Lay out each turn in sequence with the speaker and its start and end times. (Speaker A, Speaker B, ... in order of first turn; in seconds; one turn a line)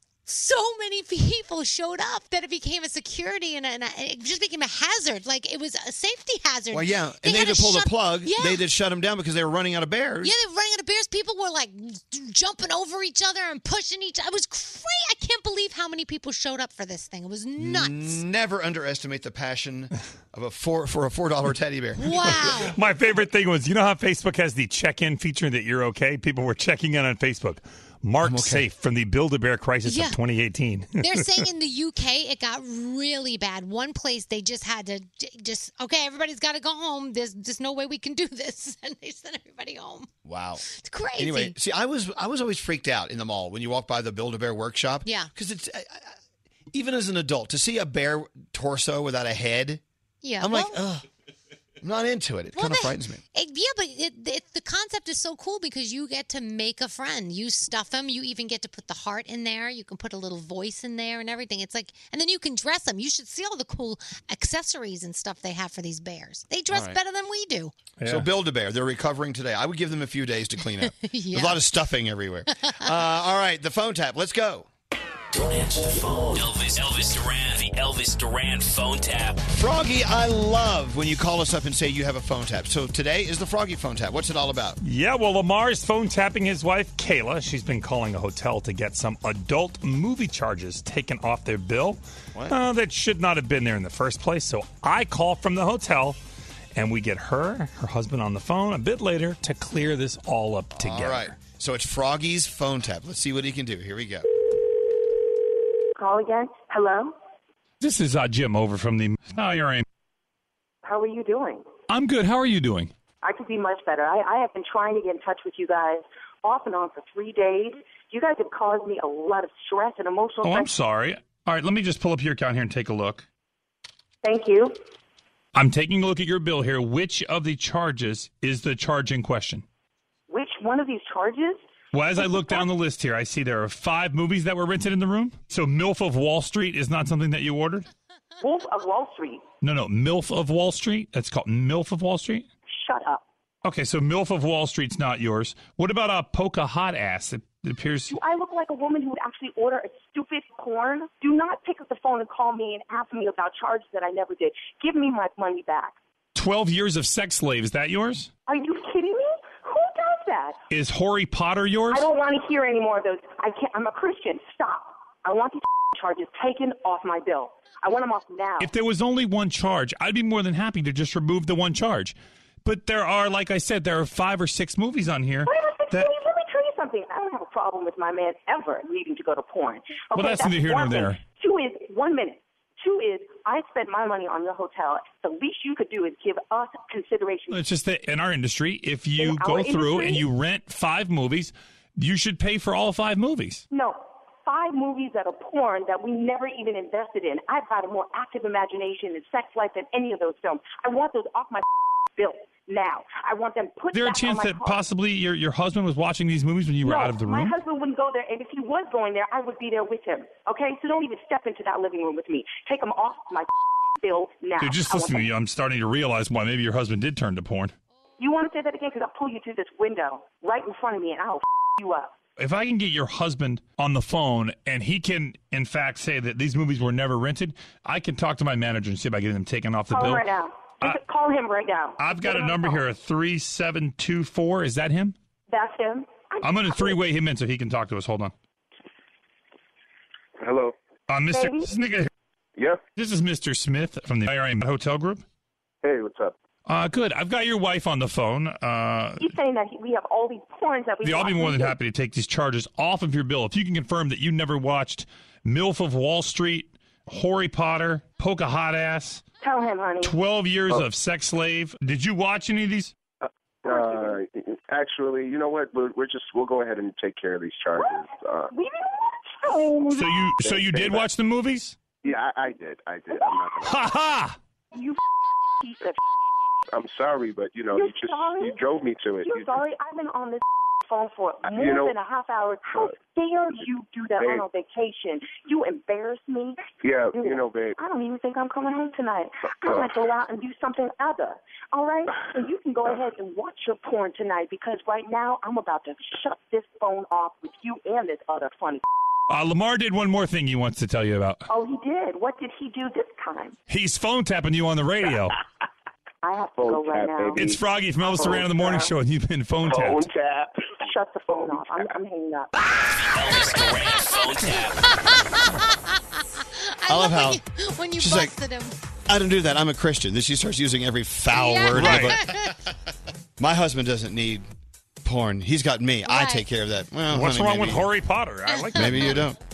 Speaker A: 0.3-8.6
Speaker B: 6.7-10.3
Speaker A: 10.2-18.2
Speaker B: 17.6-22.2
Speaker A: 22.0-22.8
Speaker C: 22.7-31.4
Speaker B: 28.2-28.7
Speaker A: 29.9-30.2
Speaker A: 31.0-40.1
Speaker B: 40.2-40.6
Speaker A: 40.7-41.5
Speaker B: 41.2-46.1
Speaker A: 45.0-45.3
Speaker B: 46.7-49.8
Speaker A: 50.2-50.8
Speaker B: 50.4-51.0
Speaker B: 51.8-53.2
Speaker A: 52.5-67.7
Speaker B: 66.7-67.0
Speaker C: 68.0-68.3
Speaker B: 68.0-74.7
Speaker A: 71.0-71.6
Speaker D: 76.3-79.4
Speaker B: 79.5-84.8
Speaker C: 84.8-96.2
Speaker C: 96.8-101.4
Speaker B: 100.8-104.3
Speaker E: 106.0-107.2
Speaker C: 107.8-109.8
Speaker E: 110.8-111.7
Speaker C: 111.9-112.9
Speaker E: 113.2-120.7
Speaker C: 120.4-123.3
Speaker E: 124.2-124.8
Speaker C: 125.5-129.6
Speaker E: 130.3-131.6
Speaker C: 131.9-137.9
Speaker E: 132.2-132.6
Speaker E: 138.4-139.4
Speaker C: 139.6-142.5
Speaker E: 142.8-143.2
Speaker C: 143.6-148.2
Speaker E: 148.1-155.9
Speaker C: 156.3-158.3
Speaker E: 158.5-160.6
Speaker C: 160.7-162.1
Speaker E: 161.9-168.7
Speaker C: 168.6-176.1
Speaker E: 175.5-187.6
Speaker C: 180.1-181.2
Speaker C: 187.5-193.7
Speaker E: 189.2-190.2
Speaker E: 193.7-201.6
Speaker E: 202.2-204.8
Speaker C: 203.9-207.6
Speaker E: 206.8-215.3
Speaker C: 214.6-217.7
Speaker E: 218.2-222.1
Speaker C: 222.4-230.3
Speaker E: 229.9-232.8
Speaker C: 232.0-235.2
Speaker E: 235.5-237.0
Speaker C: 236.4-238.3
Speaker F: 240.4-240.8
Speaker C: 241.1-242.1
Speaker E: 241.3-241.7
Speaker C: 243.0-245.2
Speaker F: 245.8-246.3
Speaker C: 246.7-249.3
Speaker E: 249.2-251.8
Speaker C: 251.0-259.2
Speaker E: 259.4-260.2
Speaker C: 260.0-262.9
Speaker F: 263.2-268.5
Speaker E: 263.7-264.1
Speaker E: 267.8-270.3
Speaker C: 269.9-271.8
Speaker F: 270.4-271.1
Speaker F: 272.0-273.9
Speaker C: 273.6-274.4
Speaker E: 275.6-276.0
Speaker F: 276.7-279.6
Speaker E: 277.7-278.7
Speaker E: 279.2-298.8
Speaker F: 281.4-281.9
Speaker F: 282.7-283.0
Speaker F: 284.2-284.4
Speaker F: 286.8-287.8
Speaker C: 299.3-301.4
Speaker E: 301.5-303.6
Speaker C: 303.7-305.4
Speaker E: 306.2-307.5
Speaker F: 306.6-307.6
Speaker C: 307.4-310.1
Speaker E: 308.1-308.9
Speaker F: 308.2-308.7
Speaker F: 309.6-310.8
Speaker E: 310.8-312.6
Speaker F: 311.3-311.9
Speaker D: 312.9-314.8
Speaker A: 314.8-318.8
Speaker B: 316.9-317.4
Speaker B: 318.0-318.3
Speaker B: 319.1-322.3
Speaker A: 321.3-322.5
Speaker C: 321.7-322.2
Speaker B: 323.4-324.5
Speaker B: 325.0-327.9
Speaker A: 326.1-326.4
Speaker C: 327.1-329.2
Speaker A: 328.5-329.1
Speaker B: 328.8-329.4